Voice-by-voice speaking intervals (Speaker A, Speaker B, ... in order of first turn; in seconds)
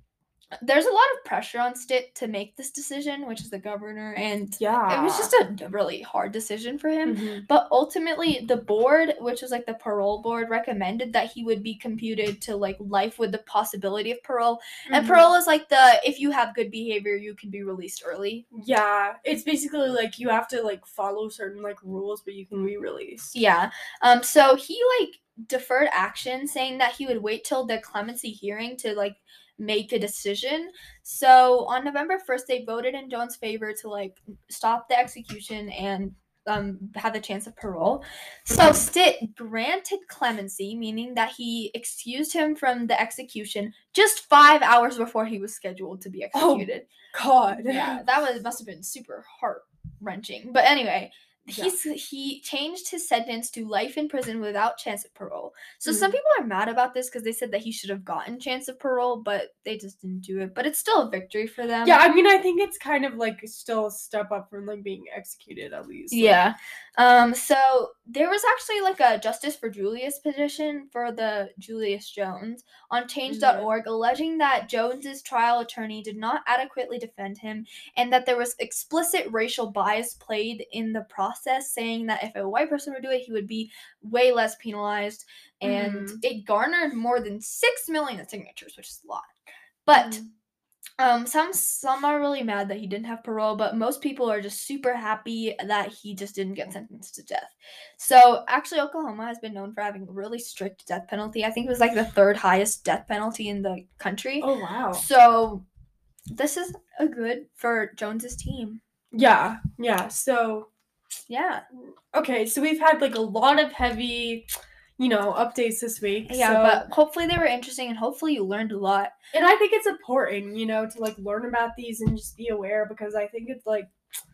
Speaker A: 0.6-18.4, 23.3-46.9, 47.5-62.0, 66.1-89.3, 89.9-90.2, 91.0-105.7, 106.3-108.8, 111.3-111.6, 116.3-119.1
Speaker B: 4.6-5.3, 7.0-7.5, 14.9-15.3, 18.5-23.4, 46.3-48.0, 55.9-56.1, 61.8-66.4, 73.3-73.7, 85.6-86.2, 89.9-90.3, 104.4-105.0, 109.1-110.7, 112.1-116.8, 119.3-123.9